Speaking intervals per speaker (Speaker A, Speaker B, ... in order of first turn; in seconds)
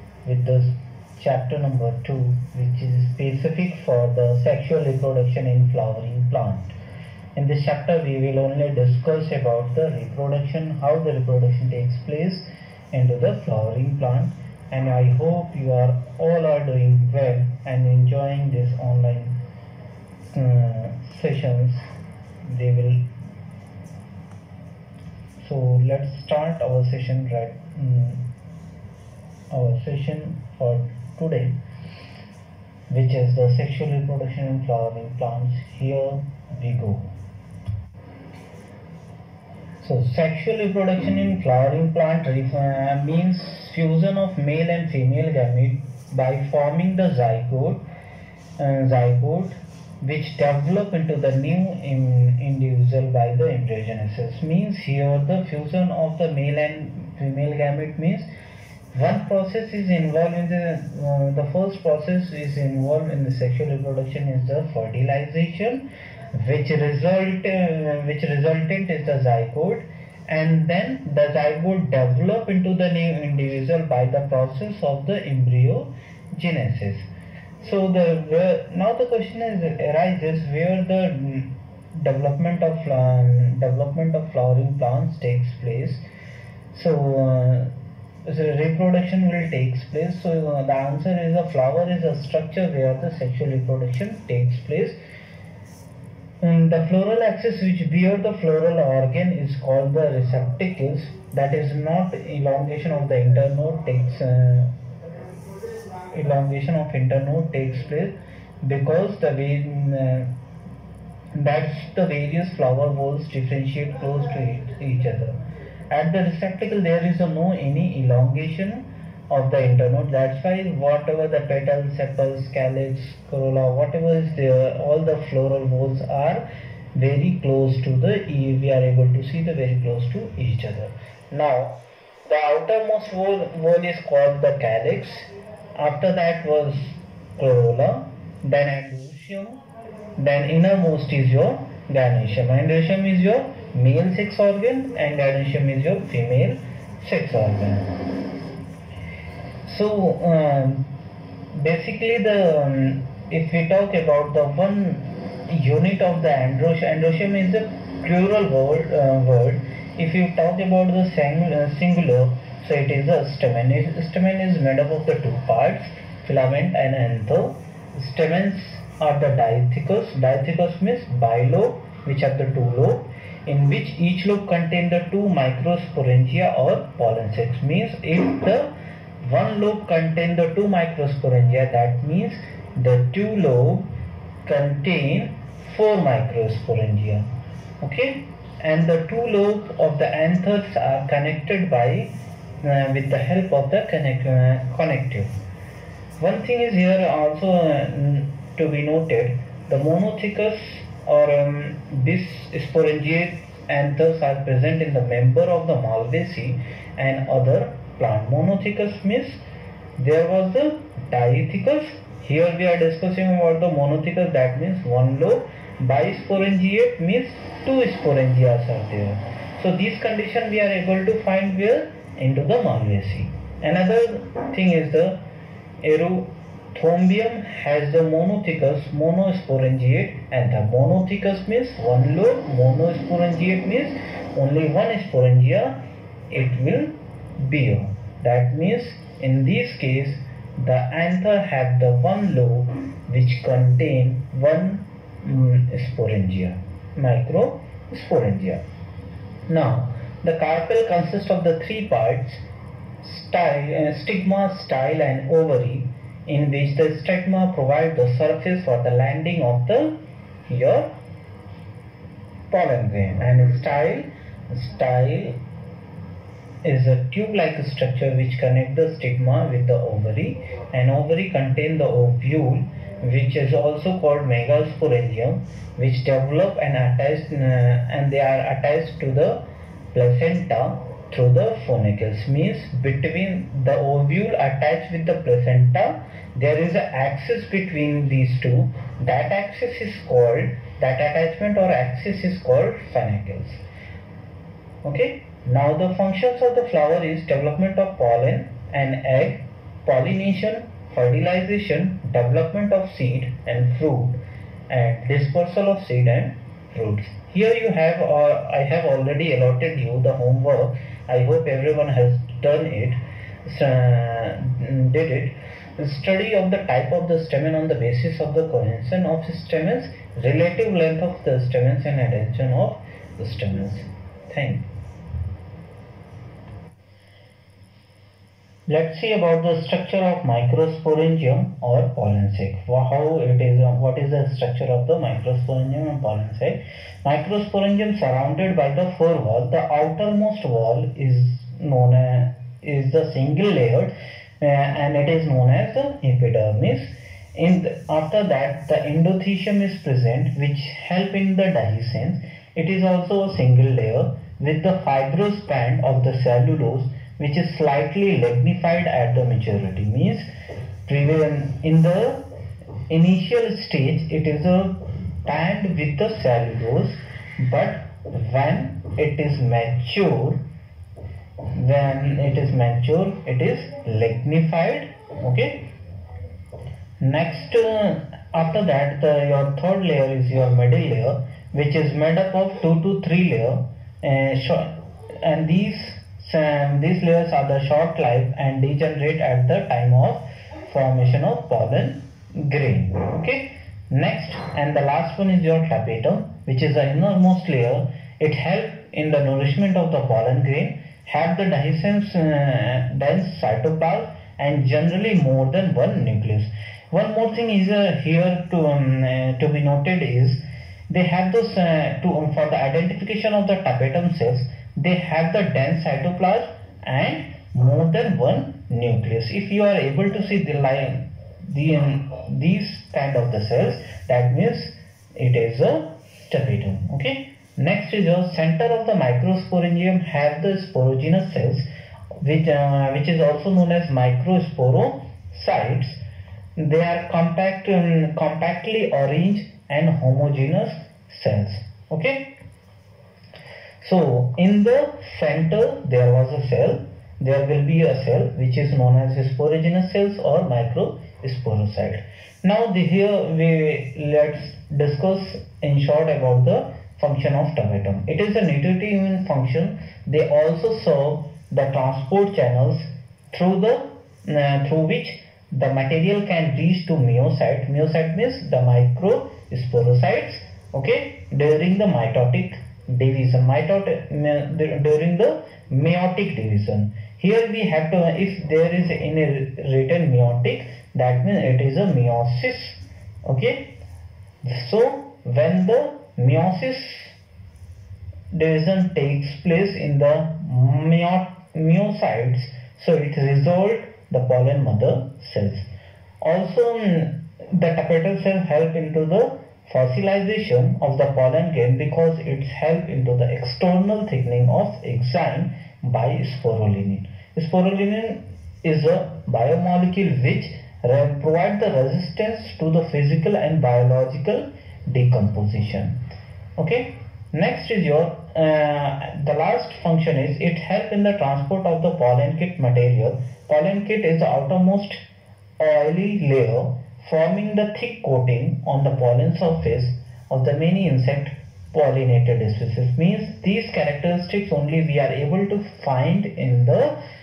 Speaker A: 0.2-6.7, 7.4-19.4, 20.3-21.8, 22.4-23.0, 25.4-28.3, 29.5-31.6, 32.9-37.1, 39.8-47.8, 48.6-58.3, 58.9-77.1, 77.6-86.0, 86.7-87.7, 88.2-95.0, 96.4-104.7, 106.1-110.3, 111.3-115.4, 115.9-139.6, 140.2-147.9, 149.7-150.9, 151.5-178.7, 179.2-183.9, 184.4-187.3, 187.8-195.3, 196.2-209.4, 210.0-225.2, 225.8-248.7, 249.5-252.4, 253.0-260.9, 262.5-265.4, 266.6-293.6, 294.8-324.7, 328.7-360.3, 360.9-362.3, 362.9-370.4, 371.5-375.7, 377.0-431.7, 432.2-436.0, 436.6-442.3, 443.8-483.8, 484.4-487.2, 488.3-495.7, 496.2-516.0, 516.6-525.0, 525.6-537.0